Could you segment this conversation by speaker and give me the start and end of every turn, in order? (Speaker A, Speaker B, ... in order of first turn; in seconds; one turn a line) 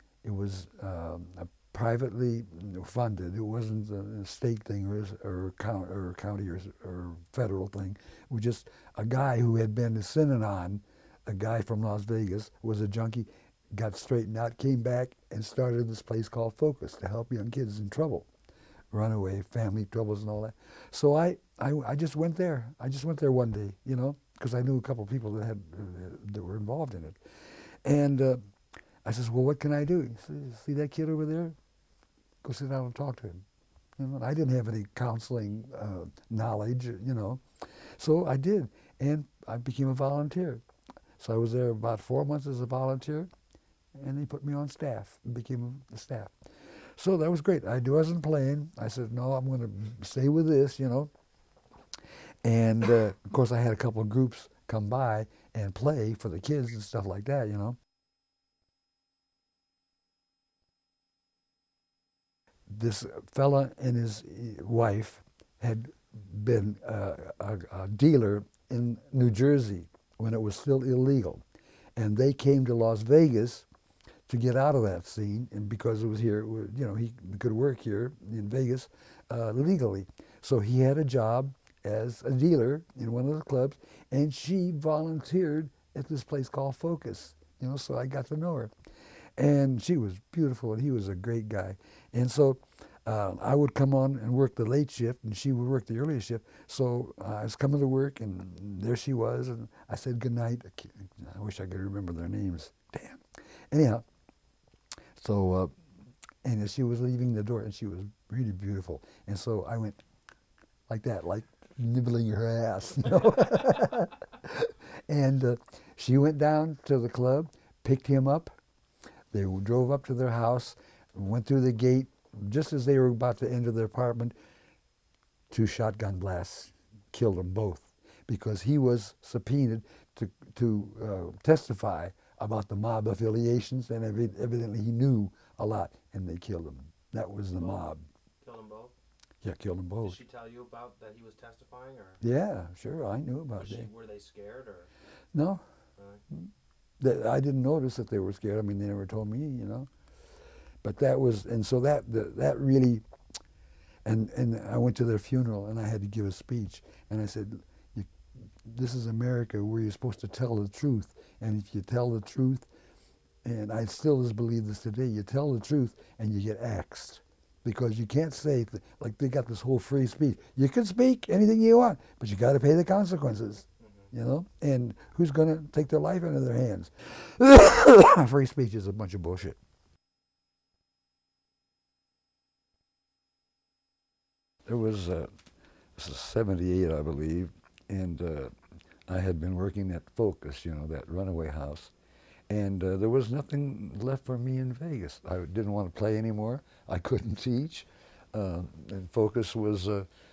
Speaker A: 0.2-18.3
Speaker A: 18.9-27.2
Speaker A: 27.8-28.4
Speaker A: 29.0-31.6
Speaker A: 32.4-33.4
Speaker A: 34.0-40.6
Speaker A: 41.2-43.3
Speaker A: 44.0-46.3
Speaker A: 47.0-51.1
Speaker A: 52.4-57.8
Speaker A: 62.7-71.4
Speaker A: 72.0-73.7
Speaker A: 74.3-88.7
Speaker A: 89.4-104.0
Speaker A: 105.2-105.7
Speaker A: 106.4-110.0
Speaker A: 110.9-118.5
Speaker A: 119.3-124.3
Speaker A: 125.5-138.0
Speaker B: 137.6-137.9
Speaker B: 138.4-138.9
Speaker A: 139.4-140.2
Speaker B: 140.0-142.2
Speaker A: 142.2-143.9
Speaker B: 143.5-144.9
Speaker A: 145.3-145.6
Speaker B: 146.0-146.2
Speaker A: 146.3-149.9
Speaker A: 150.8-153.0
Speaker A: 154.0-158.1
Speaker A: 158.6-162.7
Speaker A: 163.4-179.6
Speaker B: 173.8-174.1
Speaker A: 184.7-185.3
Speaker A: 186.0-188.5
Speaker A: 189.1-191.9
Speaker A: 192.5-200.1